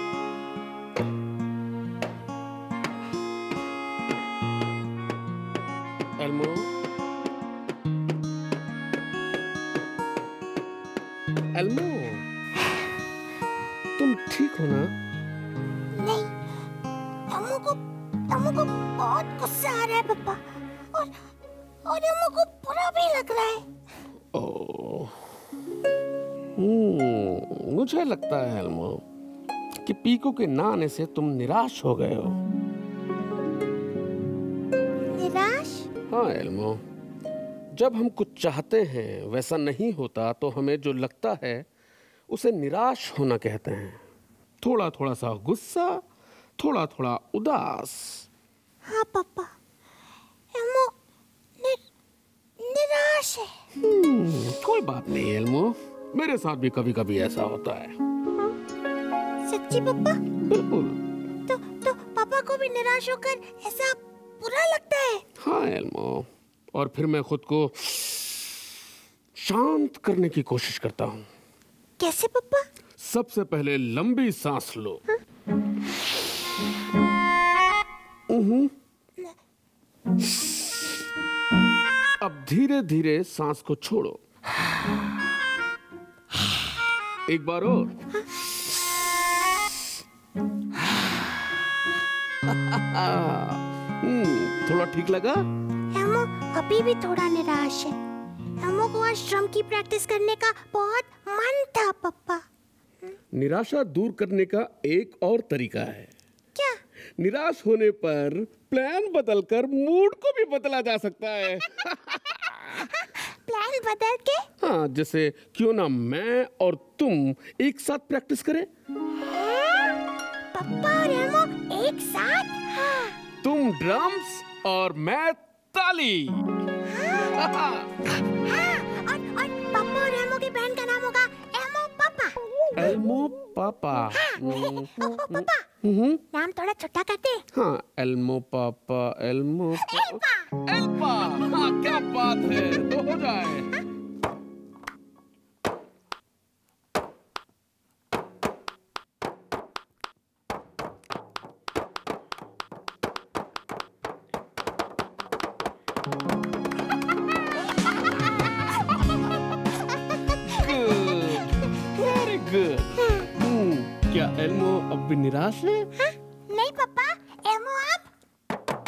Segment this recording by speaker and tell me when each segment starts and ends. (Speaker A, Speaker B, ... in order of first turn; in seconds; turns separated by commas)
Speaker A: 6.2-6.7, Speaker A: 11.5-12.2, Speaker A: 14.0-14.9, Speaker B: 15.9-16.3, Speaker B: 17.3-20.4, Speaker B: 21.9-23.6, Speaker A: 24.3-25.1, Speaker A: 26.6-29.0, Speaker A: 29.8-32.4, Speaker B: 35.1-35.9, Speaker A: 36.1-36.8, Speaker A: 37.7-41.6, Speaker A: 42.3-44.0, Speaker A: 44.6-46.0, Speaker A: 46.6-48.2, Speaker B: 48.9-49.5, Speaker B: 50.5-50.9, Speaker B: 52.6-53.5, Speaker A: 53.8-58.0, Speaker B: 59.4-60.2, Speaker A: 60.5-61.0, Speaker B: 61.5-65.2, Speaker A: 65.4-68.6, Speaker A: 69.4-71.3, Speaker B: 72.0-72.6, Speaker A: 73.0-75.0, Speaker A: 78.3-78.7, Speaker A: 82.2-84.2, Speaker A: 87.3-87.9, Speaker A: 92.5-95.5, Speaker B: 95.9-98.0, Speaker B: 98.6-102.4, Speaker A: 103.3-106.1, Speaker A: 107.2-112.9, Speaker B: 112.7-114.5, Speaker A: 114.6-118.7, Speaker B: 119.3-120.0, Speaker B: 120.5-123.2, Speaker A: 123.4-126.5, Speaker B: 126.9-127.3, Speaker A: 127.3-127.9, Speaker B: 128.2-132.4, Speaker A: 132.7-136.2, Speaker B: 134.1-135.7, Speaker B: 136.3-137.4, Speaker A: 137.5-143.8, Speaker B: 139.8-140.5, Speaker B: 160.1-160.4, Speaker A: 160.4-165.9, Speaker B: 162.9-163.3, Speaker B: 166.0-168.1